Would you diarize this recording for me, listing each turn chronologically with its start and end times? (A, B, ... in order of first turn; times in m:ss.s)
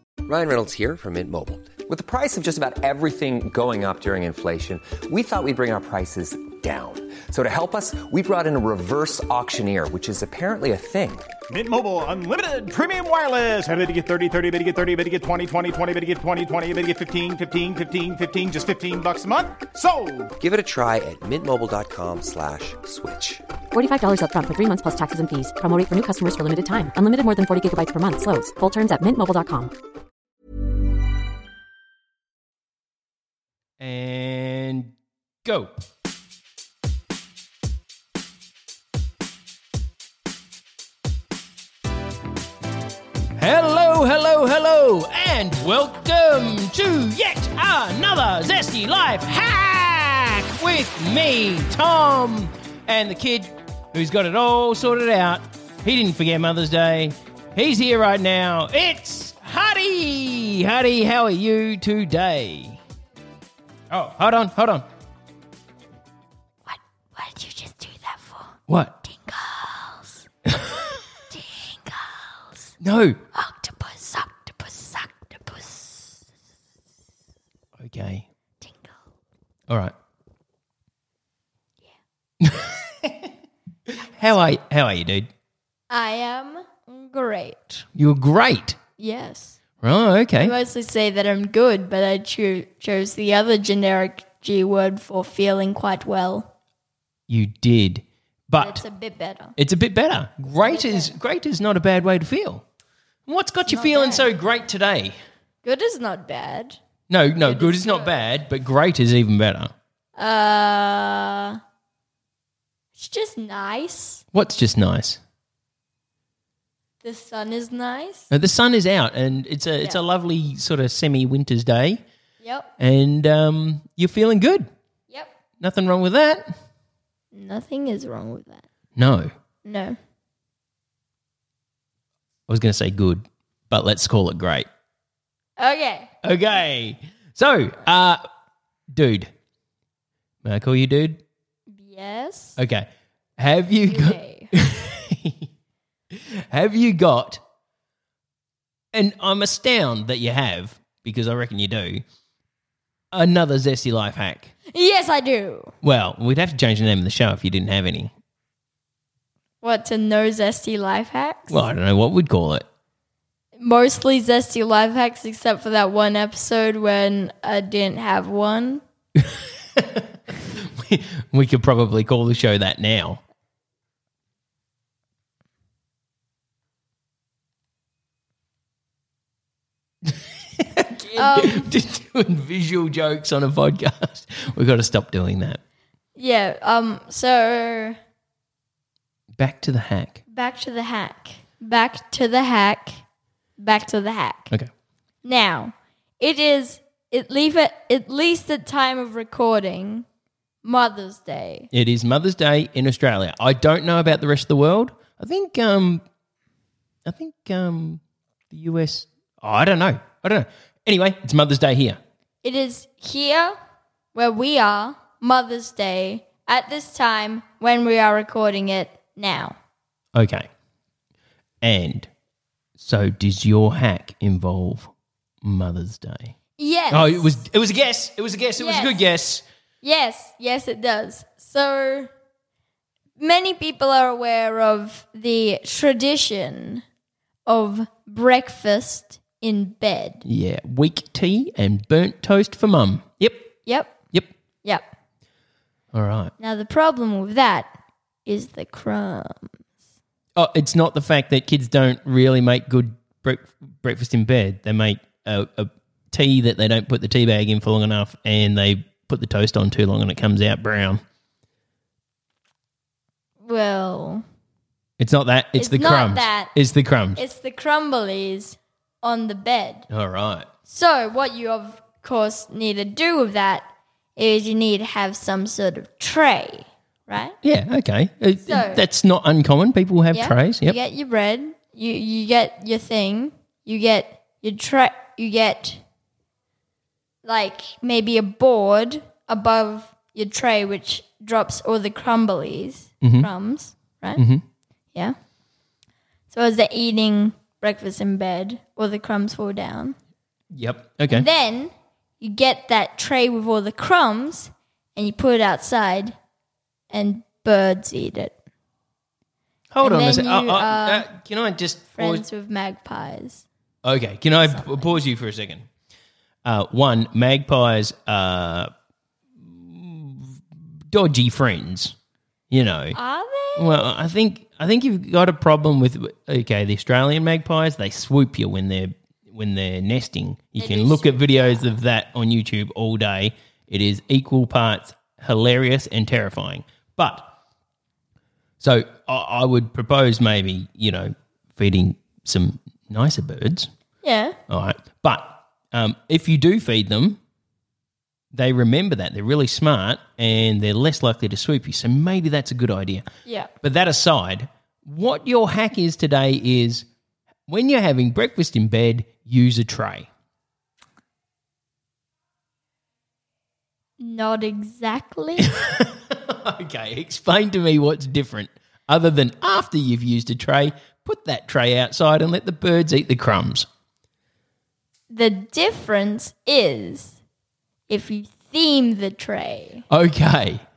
0:00.2-0:11.3 A
0:11.5-0:20.3 B
0:20.4-0:23.4 A
0:23.7-0:29.7 C
0:33.8-0:34.9 D
0:35.4-0:35.8 D
0:43.4-1:02.8 D
1:03.9-1:04.8 D
1:06.6-1:08.6 E
1:08.7-1:09.0 D
1:09.1-1:10.2 E
1:11.3-1:12.7 E
1:12.8-1:13.2 D
1:13.3-1:16.2 E
1:17.8-1:18.2 D
1:18.6-1:18.9 E
1:22.4-1:23.3 D
1:24.0-1:25.3 D
1:25.9-1:27.8 E
1:28.0-1:28.8 D
1:29.0-1:29.6 E
1:29.8-1:30.5 D
1:30.4-1:36.5 E
1:37.3-1:38.8 D
1:38.6-1:39.5 E
1:39.6-1:42.6 D
1:40.6-1:41.1 E
1:43.3-1:45.2 D
1:43.7-1:44.3 E
1:45.6-1:46.8 E
1:47.1-1:49.7 D
1:47.4-1:48.1 E
1:50.2-1:51.6 E
1:53.0-1:54.2 E
1:54.3-1:55.2 D
1:57.0-1:58.3 E
1:58.3-2:02.0 D
2:02.4-2:02.7 E
2:02.8-2:04.6 D
2:05.6-2:06.5 D
2:07.3-2:08.6 E
2:09.0-2:09.3 D
2:09.6-2:10.0 E
2:12.5-2:14.7 D
2:15.6-2:16.1 E
2:16.2-2:18.2 D
2:18.9-2:19.3 D
2:20.4-2:21.2 D
2:21.7-2:22.5 E
2:22.6-2:25.5 D
2:23.8-2:24.5 E
2:26.1-2:27.4 D
2:28.9-2:32.0 D
2:33.1-2:34.5 D
2:34.7-2:35.7 E
2:35.8-2:38.1 D
2:39.6-2:41.6 E
2:41.5-2:42.6 D
2:43.6-2:48.8 E
2:49.2-2:50.0 D
2:50.7-2:53.2 D
3:00.1-3:05.6 D
3:01.2-3:01.6 E
3:06.2-3:08.0 E
3:09.4-3:10.2 D
3:10.3-3:13.0 E
3:13.6-3:14.5 E
3:15.2-3:20.0 E
3:20.6-3:21.7 E
3:21.7-3:26.0 D
3:27.0-3:32.0 D
3:32.4-3:33.6 E
3:34.1-3:39.6 E
3:40.1-3:40.5 D
3:41.6-3:42.1 D
3:42.8-3:44.9 D
3:45.4-3:46.3 D
3:46.6-3:47.4 E
3:46.9-3:49.4 D
3:48.6-3:49.0 E
3:49.8-3:52.1 E
3:53.2-3:56.8 E
3:57.4-4:00.2 E
4:00.2-4:03.5 D
4:03.6-4:04.0 E
4:05.9-4:06.3 D
4:06.4-4:07.7 E
4:08.2-4:09.6 E
4:10.4-4:21.0 D
4:23.4-4:24.2 E
4:25.0-4:27.2 D
4:25.6-4:26.5 E
4:27.2-4:29.9 E
4:29.9-4:30.5 D
4:30.6-4:37.4 E
4:37.4-4:40.8 D
4:38.4-4:38.8 E
4:40.1-4:45.8 E
4:47.2-4:54.2 E
4:53.0-4:53.3 D
4:54.2-4:54.4 D
4:56.3-4:59.9 E
5:00.5-5:01.3 D
5:01.1-5:06.1 E
5:06.9-5:08.3 E
5:09.7-5:12.2 D
5:09.8-5:11.1 E
5:11.9-5:13.4 E
5:13.8-5:15.6 D
5:14.4-5:15.0 E
5:16.4-5:18.7 D
5:19.4-5:20.4 D
5:20.9-5:21.9 D
5:22.5-5:23.0 D
5:22.9-5:23.8 E
5:23.6-5:37.3 D
5:30.6-5:31.7 E
5:38.6-5:43.7 D
5:44.0-5:44.4 E
5:44.5-5:47.2 D
5:48.3-5:53.0 D
5:53.2-5:53.5 E
5:53.6-5:56.8 D
5:57.5-6:00.1 D
6:04.0-6:05.5 E
6:05.5-6:13.6 D
6:15.1-6:17.2 E
6:17.9-6:19.8 E
6:19.9-6:20.6 D